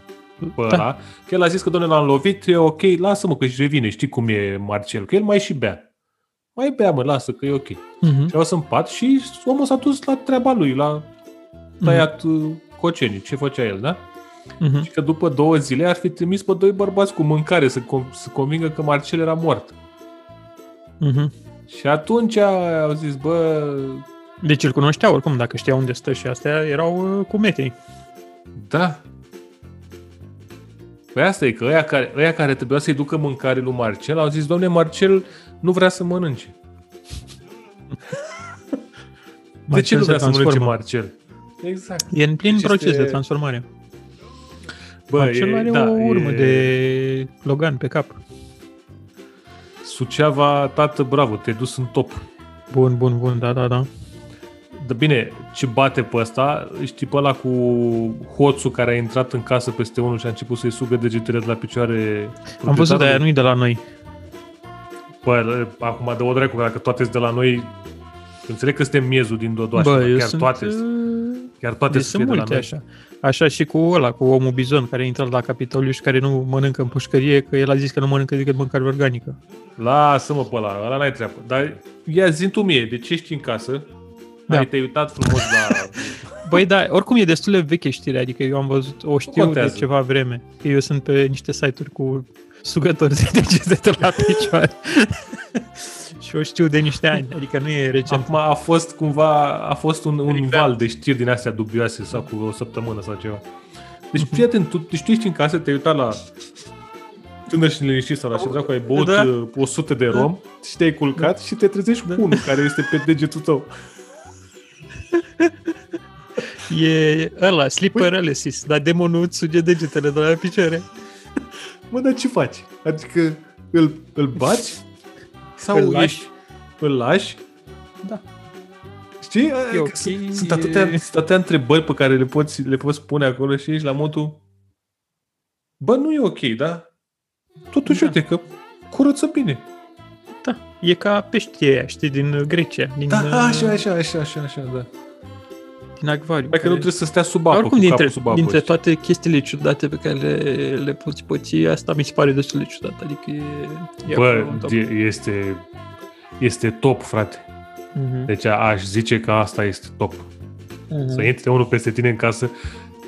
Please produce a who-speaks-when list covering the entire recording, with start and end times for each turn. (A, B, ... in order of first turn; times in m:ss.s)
0:00.4-0:00.8 A
0:00.6-0:05.9 B
0:06.6-0:11.1 B
0:08.0-0:08.3 A
0:11.8-0:12.1 A
0:11.8-0:14.0 B
0:14.6-0:14.9 A
0:14.9-0:19.8 B
0:21.0-0:21.3 A
0:21.7-0:24.0 B
0:24.4-0:27.8 A
0:28.5-0:29.0 B
0:31.1-0:36.6 B
0:39.7-0:40.7 A
0:39.7-0:43.2 B
0:42.1-0:43.7 A
0:45.1-0:46.8 B
0:45.2-0:48.2 A
0:49.8-0:52.2 B
0:52.7-0:53.9 A
0:54.7-1:03.3 B
1:02.6-1:03.8 A
1:05.2-1:07.8 B
1:08.5-1:10.8 B
1:09.8-1:19.4 A
1:11.6-1:12.7 B
1:19.8-1:23.9 B
1:24.5-1:26.6 B
1:25.2-1:25.7 A
1:26.4-1:38.3 A
1:29.3-1:29.9 B
1:38.1-1:43.5 B
1:40.4-1:40.7 A
1:44.1-1:46.2 B
1:47.5-1:53.7 B
1:48.9-1:49.3 A
1:52.1-1:52.4 A
1:55.1-1:55.7 A
1:56.5-2:00.9 A
2:01.9-2:04.8 B
2:05.6-2:07.4 B
2:05.7-2:06.3 A
2:09.2-2:14.4 B
2:09.7-2:11.1 A
2:15.8-2:16.9 B
2:17.7-2:19.7 B
2:17.9-2:18.2 A
2:20.4-2:23.8 A
2:23.1-2:24.9 B
2:26.0-2:26.9 A
2:26.5-2:28.7 B
2:27.5-2:34.8 A
2:34.1-2:35.6 B
2:36.4-2:37.5 B
2:38.0-2:38.3 A
2:38.3-2:40.3 B
2:40.9-2:41.3 A
2:41.1-2:42.5 B